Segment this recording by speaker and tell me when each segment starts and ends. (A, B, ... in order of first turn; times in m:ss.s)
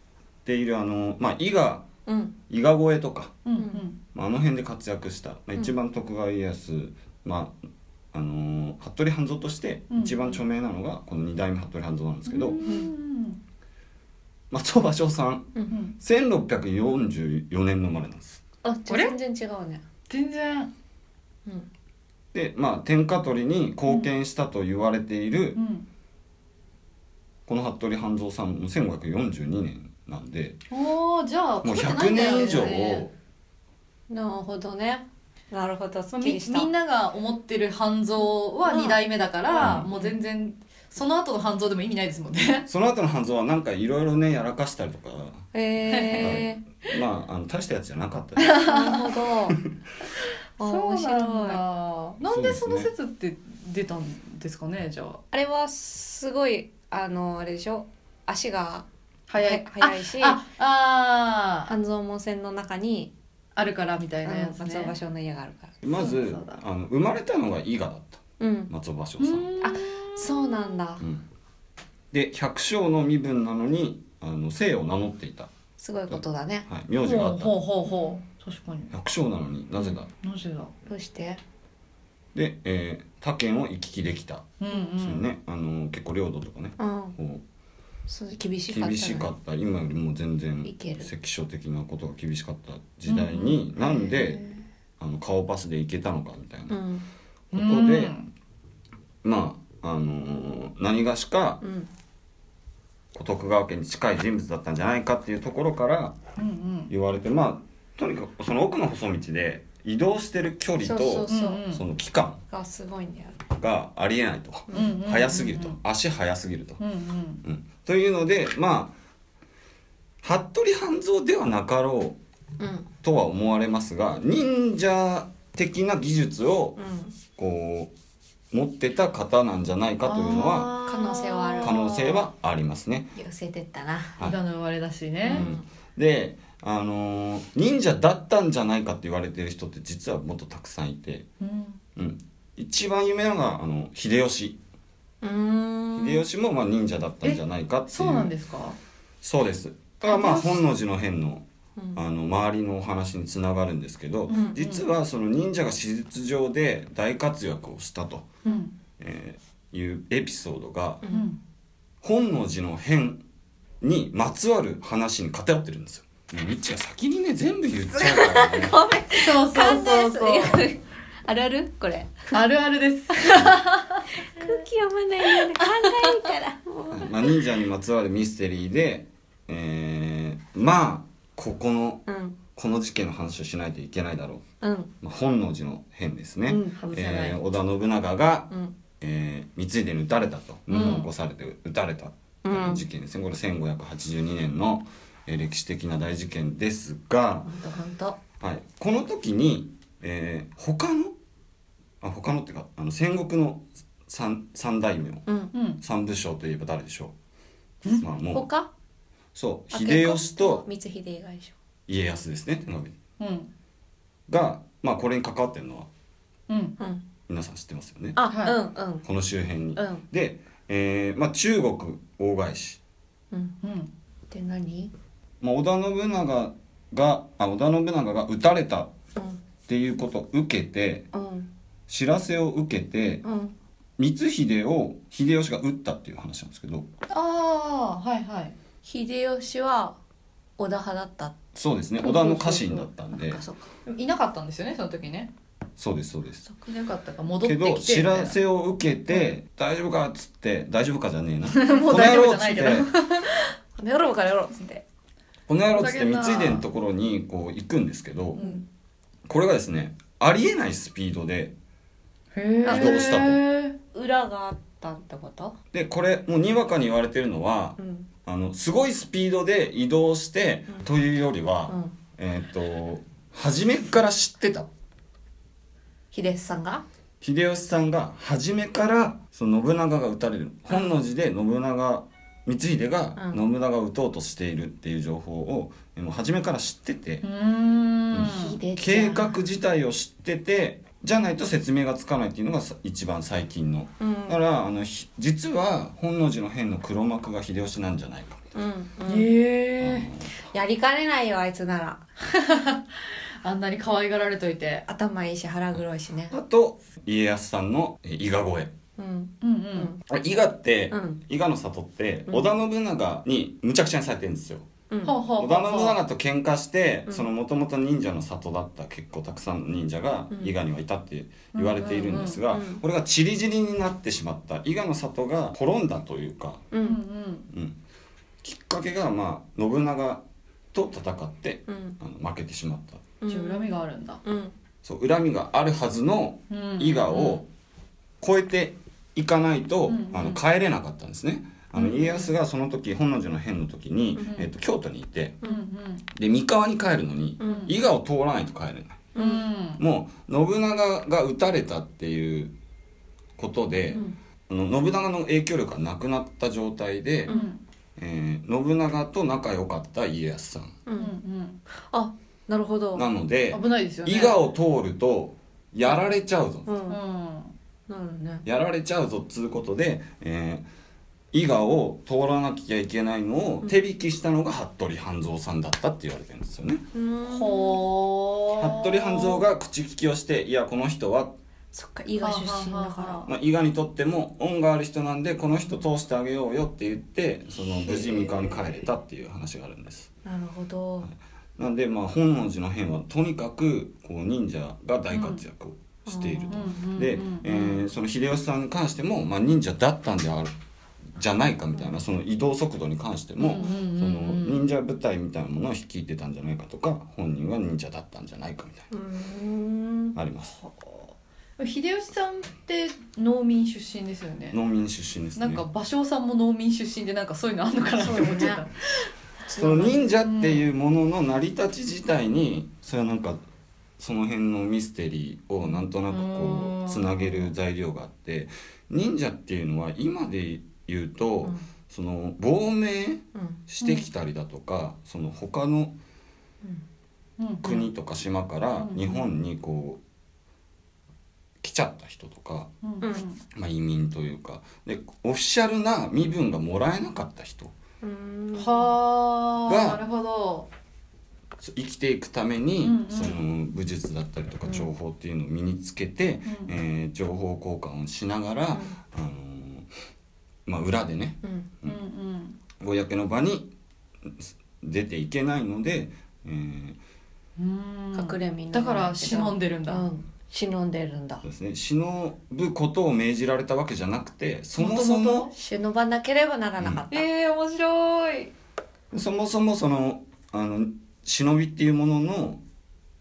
0:00.4-0:01.9 A
0:02.0-0:02.3 B
0:02.5-0:03.4 A
0:03.4-0:04.0 C
0:03.6-0:03.8 B
0:04.1-0:07.6 A
0:08.1-0:12.6 A
0:09.9-0:10.3 C
0:12.3-0:13.4 C
0:12.6-0:12.9 B
0:14.5-0:18.4 A
0:18.6-0:19.8 B
0:18.9-0:19.1 C
0:20.1-0:20.7 C
0:22.3-0:25.6 A
0:25.5-0:25.8 C
0:27.5-0:30.6 A
0:30.7-0:33.0 C
0:31.6-0:33.1 A
0:32.2-0:32.7 B
0:34.1-0:36.7 B
0:36.1-0:42.7 C
0:38.6-0:40.2 B
0:39.6-0:39.9 A
0:42.7-0:45.4 A
0:45.5-0:46.6 B
0:45.9-0:46.4 C
0:46.1-0:48.6 A
0:48.4-0:49.3 C
0:48.5-0:49.6 B
0:50.6-0:51.6 B
0:50.6-0:55.2 C
0:52.2-0:52.9 A
0:55.3-1:00.4 B
0:59.3-1:01.7 C
1:01.7-1:03.1 B
1:03.6-1:04.9 C
1:04.2-1:05.8 B
1:05.8-1:09.5 A
1:06.0-1:06.6 C
1:08.4-1:08.7 B
1:09.2-1:10.4 C
1:09.6-1:11.0 B
1:11.0-1:11.2 A
1:12.1-1:15.5 A
1:15.8-1:16.7 B
1:16.1-1:17.6 A
1:17.0-1:18.9 C
1:17.9-1:18.2 B
1:18.9-1:20.1 A
1:20.1-1:20.7 C
1:20.8-1:21.4 B
1:22.3-1:27.4 A
1:24.6-1:25.3 C
1:26.8-1:27.2 B
1:28.1-1:29.3 B
1:28.7-1:34.4 A
1:30.6-1:31.1 B
1:33.1-1:34.6 C
1:35.0-1:36.8 A
1:36.7-1:37.0 B
1:37.5-1:38.1 A
1:37.5-1:38.3 C
1:39.2-1:41.6 A
1:41.6-1:41.9 B
1:43.1-1:46.2 A
1:46.4-1:46.9 C
1:46.9-1:52.4 A
1:50.8-1:51.6 B
1:51.3-1:51.8 C
1:52.5-1:53.4 B
1:53.5-1:56.8 A
1:54.7-1:55.0 B
1:54.7-1:55.8 C
1:56.8-1:57.4 C
1:57.4-1:58.9 A
2:00.2-2:02.2 A
2:02.6-2:02.9 B
2:03.0-2:06.8 A
2:06.8-2:07.1 B
2:07.3-2:07.9 A
2:08.5-2:10.7 A
2:10.0-2:12.0 C
2:10.5-2:12.2 B
2:11.6-2:13.1 A
2:13.1-2:14.2 B
2:14.2-2:15.5 C
2:15.2-2:15.6 B
2:15.2-2:21.2 A
2:21.4-2:21.8 C
2:22.0-2:24.6 A
2:25.2-2:26.2 B
2:26.0-2:28.3 A
2:27.2-2:28.8 C
2:29.2-2:38.3 A
2:30.0-2:30.6 C
2:34.3-2:34.9 C
2:38.4-2:38.7 C
2:39.0-2:41.0 A
2:41.0-2:41.3 B
2:41.1-2:41.4 C
2:42.0-2:43.2 A
2:43.8-2:48.7 A
2:47.9-2:52.3 B
2:49.1-2:50.7 C
2:52.3-2:54.0 C
2:54.2-2:57.4 B
2:55.6-2:56.1 C
2:56.9-3:04.4 A
3:02.1-3:02.4 B
3:04.6-3:04.9 B
3:05.0-3:17.5 A
3:06.5-3:07.3 B
3:06.5-3:07.4 C
3:10.7-3:11.1 C
3:12.4-3:12.8 B
3:17.4-3:18.2 B
3:18.4-3:21.1 A
3:22.0-3:25.2 A
3:25.3-3:25.5 B
3:25.5-3:25.8 C
3:25.8-3:27.1 A
3:28.0-3:28.5 A
3:28.3-3:28.7 B
3:29.3-3:30.6 A
3:29.7-3:31.5 B
3:31.9-3:33.0 A
3:33.2-3:33.5 C
3:34.3-3:35.9 A
3:36.5-3:36.8 C
3:36.8-3:37.0 B
3:37.3-3:38.2 A
3:38.2-3:39.0 B
3:38.3-3:38.6 C
3:39.0-3:42.8 A
3:39.8-3:40.0 B
3:43.6-3:43.9 C
3:44.3-3:44.9 B
3:45.4-3:48.9 A
3:49.1-3:49.4 B
3:49.7-3:51.0 A
3:51.1-3:51.5 B
3:51.9-3:53.2 A
3:53.2-3:53.5 B
3:54.0-3:56.9 A
3:57.1-3:58.5 C
3:58.8-4:00.0 B
4:00.6-4:01.3 B
4:01.5-4:03.4 A
4:02.0-4:03.7 B
4:02.2-4:02.7 C
4:03.8-4:05.3 C
4:05.8-4:06.4 A
4:06.6-4:08.4 C
4:07.4-4:12.9 A
4:11.5-4:13.3 C
4:13.8-4:14.8 B
4:15.5-4:18.4 A
4:15.7-4:16.6 C
4:18.3-4:18.6 C
4:19.3-4:21.5 A
4:22.3-4:23.8 C
4:22.6-4:23.3 B
4:22.7-4:23.4 A
4:23.9-4:25.5 B
4:25.7-4:34.7 A
4:27.8-4:28.1 B
4:31.7-4:31.9 B
4:36.1-4:36.8 B
4:37.2-4:47.2 A
4:43.2-4:43.4 B
4:47.2-4:48.6 C
4:48.1-4:58.5 A
4:48.2-4:49.4 B
4:54.0-4:54.4 B
4:58.5-4:59.3 B
4:59.1-5:00.1 C
4:59.8-5:00.3 A
5:00.5-5:02.0 B
5:02.2-5:02.8 C
5:03.4-5:04.8 C
5:04.9-5:06.3 B
5:06.3-5:08.7 A
5:09.0-5:10.0 B
5:09.4-5:09.9 C
5:10.1-5:14.7 A
5:10.9-5:11.2 B
5:14.9-5:15.2 B
5:15.0-5:16.0 C
5:15.4-5:26.6 A
5:21.5-5:22.4 C
5:22.5-5:22.8 B
5:26.7-5:27.0 B
5:26.8-5:27.5 C
5:27.5-5:27.8 A
5:28.4-5:33.1 A
5:31.7-5:32.0 B
5:33.2-5:34.5 B
5:33.3-5:34.2 C
5:34.8-5:37.5 A
5:36.5-5:37.4 C
5:38.2-5:45.4 A
5:39.9-5:40.4 C
5:41.7-5:42.3 C
5:45.4-5:46.0 C
5:46.1-5:49.1 A
5:47.4-5:47.7 B
5:47.4-5:47.7 C
5:49.1-5:49.4 B
5:49.1-5:49.8 C
5:49.8-5:52.5 A
5:53.4-5:57.3 A
5:57.3-5:57.6 C
5:58.0-6:00.8 A
6:00.8-6:01.2 B
6:01.0-6:01.6 C
6:01.8-6:03.0 B
6:02.9-6:06.7 A
6:03.5-6:04.4 C
6:06.6-6:07.0 B
6:06.9-6:07.5 C
6:07.9-6:08.4 B
6:08.4-6:10.6 A
6:11.3-6:16.8 A
6:16.9-6:17.8 B
6:17.3-6:19.4 C
6:18.6-6:21.4 A
6:21.7-6:23.3 B
6:22.2-6:23.3 C
6:23.2-6:30.1 A
6:27.8-6:28.6 B
6:30.2-6:31.1 B
6:31.0-6:40.5 A
6:35.1-6:35.4 C
6:36.0-6:36.5 B
6:36.5-6:37.8 C
6:41.1-6:48.9 A
6:43.4-6:44.6 C
6:43.4-6:43.7 B
6:48.9-6:50.2 B
6:50.1-6:50.6 A
6:50.6-6:54.6 C
6:54.5-6:55.6 A
6:55.4-6:59.1 C
6:58.0-6:58.6 B
6:59.5-7:00.0 B
6:59.5-7:03.4 A
6:59.6-7:00.6 C
7:04.0-7:15.9 A
7:06.1-7:07.5 C
7:13.3-7:13.6 B
7:17.4-7:17.9 C
7:17.6-7:20.0 A
7:18.8-7:19.2 C
7:21.6-7:22.7 A
7:22.8-7:23.4 C
7:23.0-7:23.2 B
7:23.5-7:27.7 A
7:28.0-7:28.9 B
7:28.6-7:30.7 C
7:29.6-7:30.0 A
7:31.6-7:39.9 A
7:32.8-7:33.4 C
7:36.4-7:36.7 C
7:38.7-7:39.0 B
7:40.6-7:42.0 A
7:41.8-7:42.6 C
7:42.8-7:43.7 A
7:44.2-7:47.0 A
7:47.6-7:50.1 C
7:48.1-7:51.4 B
7:51.4-7:55.5 A
7:54.8-7:55.5 C
7:55.5-7:57.3 B
7:57.1-7:58.5 C
7:59.1-8:02.6 A